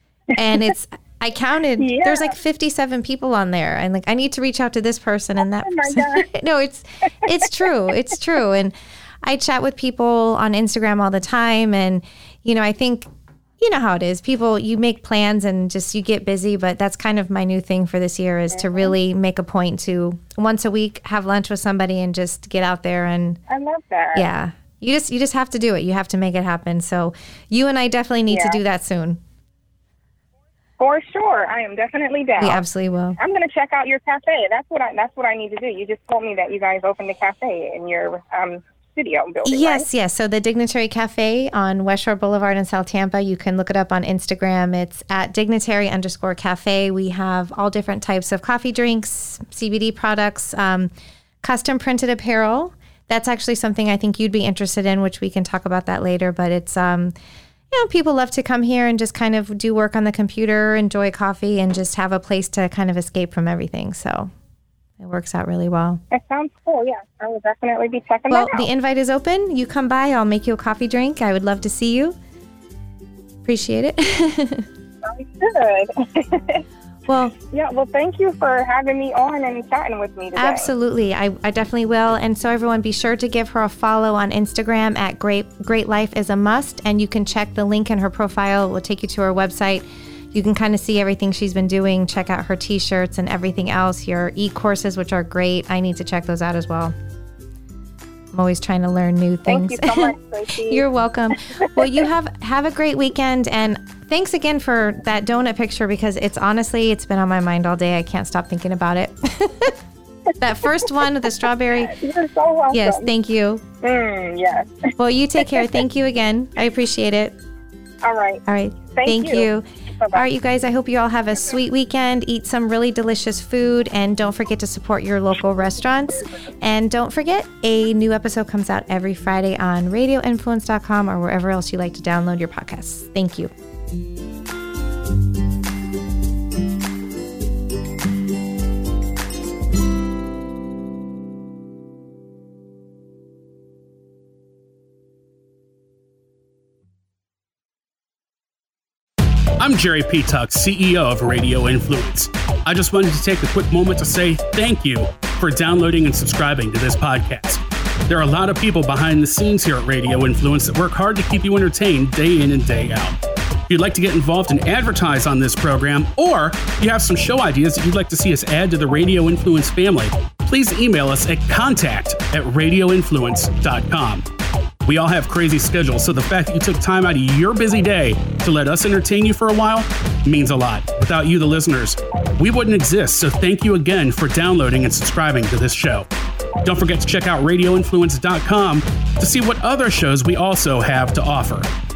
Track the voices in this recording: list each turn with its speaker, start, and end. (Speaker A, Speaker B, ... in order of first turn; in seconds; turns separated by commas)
Speaker A: 0.3-0.7, Speaker B: 0.3-23.4, Speaker A: 1.8-2.3, Speaker A: 5.5-6.2, Speaker A: 18.5-18.9, Speaker A: 23.5-24.3, Speaker B: 24.1-29.2, Speaker A: 28.3-28.6, Speaker A: 30.8-32.6, Speaker B: 32.4-33.2, Speaker A: 33.2-39.9, Speaker B: 39.4-50.9, Speaker B: 51.4-57.1, Speaker B: 57.7-64.3, Speaker B: 65.0-66.0, Speaker A: 66.1-68.7, Speaker B: 68.3-72.2, Speaker B: 73.4-74.7, Speaker A: 75.0-76.6, Speaker B: 77.1-77.3, Speaker A: 77.5-80.7, Speaker B: 80.3-96.9, Speaker B: 98.3-100.1, Speaker A: 99.5-100.8, Speaker B: 100.7-109.7, Speaker B: 110.4-111.9, Speaker A: 111.8-113.1, Speaker B: 112.7-113.6, Speaker A: 113.8-114.9, Speaker B: 115.0-117.3, Speaker A: 118.0-120.2, Speaker B: 118.5-133.5, Speaker C: 149.6-163.2, Speaker C: 163.7-174.2, Speaker C: 174.8-186.1, Speaker C: 186.6-191.7